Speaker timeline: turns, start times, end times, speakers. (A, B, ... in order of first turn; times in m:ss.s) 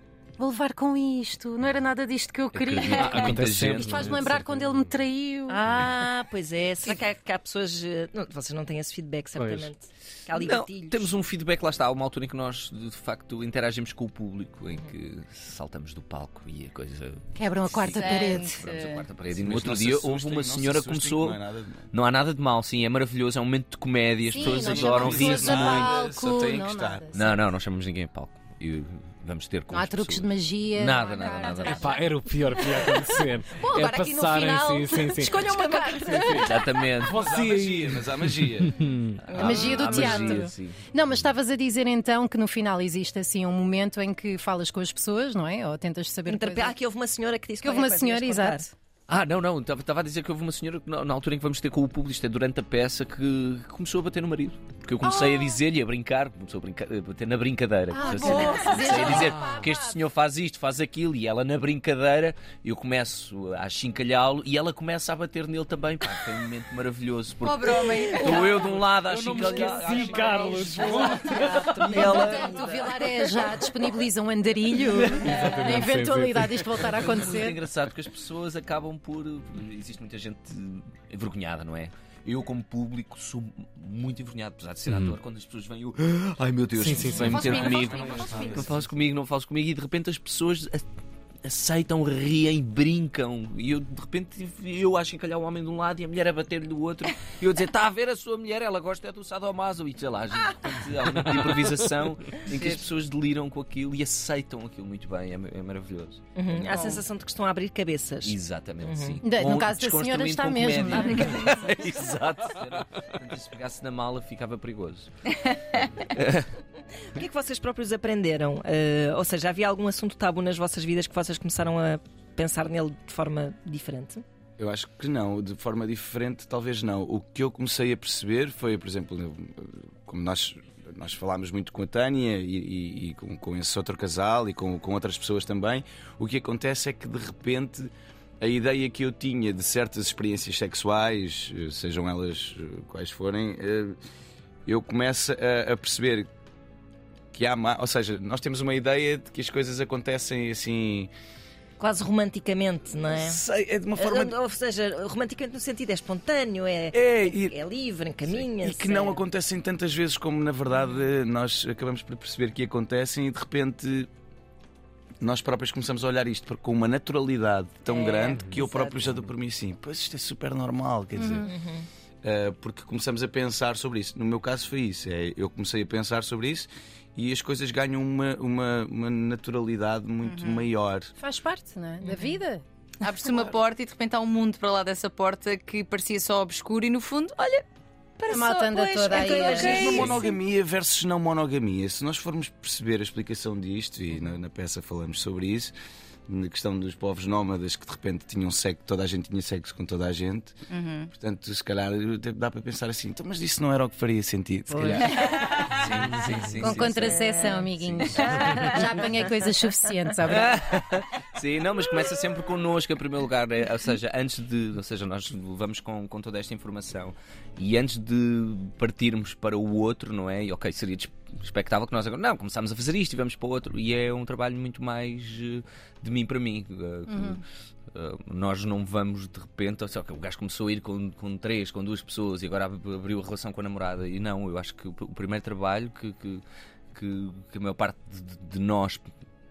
0:00.4-0:03.1 A
0:02.5-0:04.3 B
0:02.8-0:03.4 C
0:03.0-0:04.9 D
0:03.8-0:05.7 A
0:05.5-0:11.1 E
0:09.4-0:09.7 D
0:10.3-0:25.9 B
0:17.3-0:18.6 A
0:17.9-0:19.1 C
0:19.3-0:21.9 F
0:24.2-0:27.4 A
0:24.4-0:27.0 F
0:27.1-0:31.8 B
0:29.7-0:32.0 A
0:31.4-0:32.0 C
0:31.6-0:35.6 D
0:33.5-0:36.8 A
0:35.1-0:36.3 E
0:36.2-0:39.2 D
0:36.4-0:37.2 B
0:37.1-0:38.8 F
0:39.3-0:40.2 C
0:39.3-0:40.8 B
0:39.3-0:46.8 A
0:46.3-0:48.6 E
0:47.6-0:48.7 A
0:49.1-1:10.6 B
0:55.0-0:55.6 A
0:57.9-1:00.0 A
0:58.0-0:59.0 E
0:58.2-0:59.3 C
1:07.4-1:08.7 C
1:07.9-1:08.7 E
1:09.0-1:12.0 D
1:09.3-1:12.9 E
1:10.6-1:11.2 C
1:11.9-1:17.6 A
1:12.9-1:13.5 C
1:15.0-1:17.1 D
1:16.9-1:30.8 B
1:24.8-1:25.2 D
1:26.8-1:28.6 D
1:26.9-1:27.4 E
1:27.2-1:28.7 C
1:27.7-1:28.7 F
1:31.4-1:47.0 B
1:42.5-1:42.8 C
1:46.4-1:49.2 E
1:48.2-1:56.5 B
1:49.2-1:51.5 A
1:51.0-1:51.4 E
1:57.1-2:04.2 E
2:04.6-2:24.0 F
2:24.6-2:26.3 F
2:27.3-2:31.1 F
2:31.8-2:33.4 E
2:33.1-2:34.4 F
2:33.9-2:39.2 E
2:36.9-2:37.6 F
2:38.5-2:44.1 F
2:45.2-2:51.5 F
2:47.8-2:49.2 E
2:48.3-2:48.6 D
2:51.1-2:51.5 A
2:51.4-2:51.9 E
2:52.2-3:01.1 F
3:00.2-3:00.7 C
3:01.2-3:02.6 A
3:02.0-3:02.4 E
3:03.0-3:07.6 C
3:08.2-3:10.4 C
3:08.3-3:10.2 A
3:09.0-3:10.2 E
3:09.8-3:15.7 F
3:16.3-3:20.6 F
3:20.7-3:21.1 C
3:21.1-3:25.1 F
3:24.7-3:25.5 E
3:25.0-3:25.8 C
3:25.7-3:27.2 B
3:26.6-3:30.6 A
3:27.0-3:28.6 E
3:27.8-3:28.7 B
3:28.3-3:28.7 C
3:30.3-3:56.4 B
3:47.1-3:47.3 A
3:56.9-3:59.1 B